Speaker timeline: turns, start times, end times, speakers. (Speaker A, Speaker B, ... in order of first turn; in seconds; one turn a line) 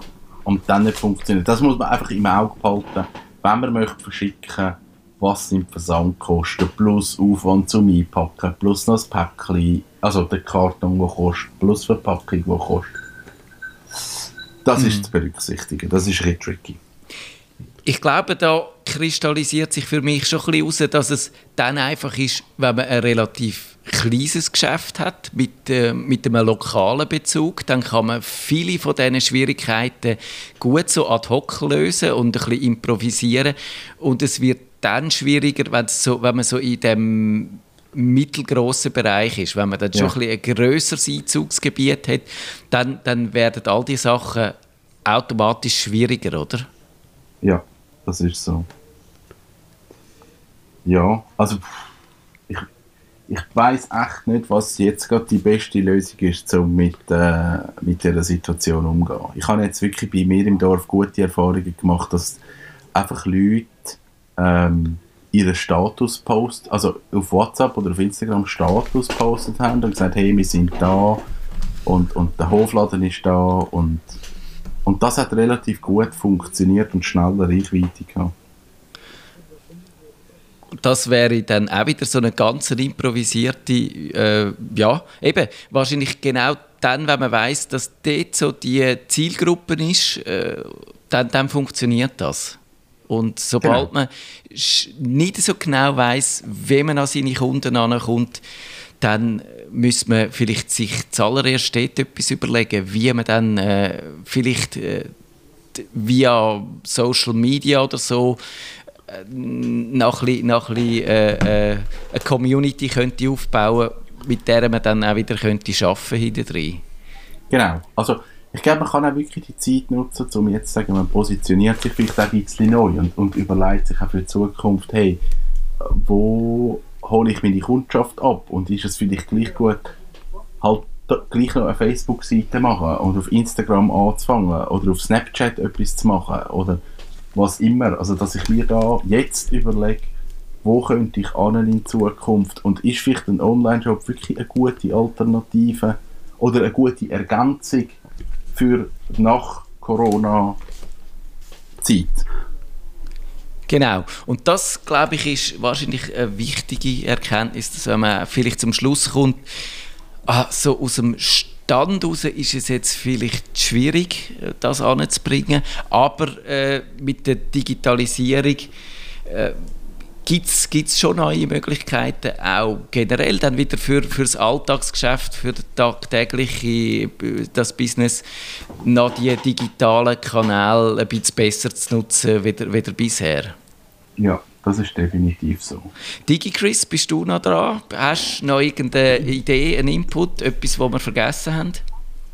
Speaker A: 0.4-13.0
Speaker A: 14.0-16.8
Speaker B: 14.8-15.1
Speaker B: 17.9-44.5
Speaker B: 45.0-46.7
Speaker A: 47.4-48.7
Speaker A: 50.8-51.9
Speaker A: 53.3-62.4
Speaker A: 62.9-71.2
Speaker A: 71.8-74.2
Speaker A: 74.8-78.3
Speaker B: 80.8-98.4
Speaker A: 93.6-93.9
Speaker B: 99.0-105.1
Speaker B: 105.7-108.4
Speaker B: 109.1-116.8
Speaker A: 117.5-125.2
Speaker A: 125.8-129.9
Speaker A: 130.6-136.8
Speaker A: 137.3-140.1
Speaker A: 140.6-148.0
Speaker A: 148.5-150.6
Speaker A: 151.8-152.2
Speaker B: 153.7-159.4
Speaker B: 160.3-168.7
Speaker B: 169.3-169.6
Speaker B: 170.2-178.2
Speaker B: 178.8-183.6
Speaker A: 184.2-185.9
Speaker B: 186.2-191.8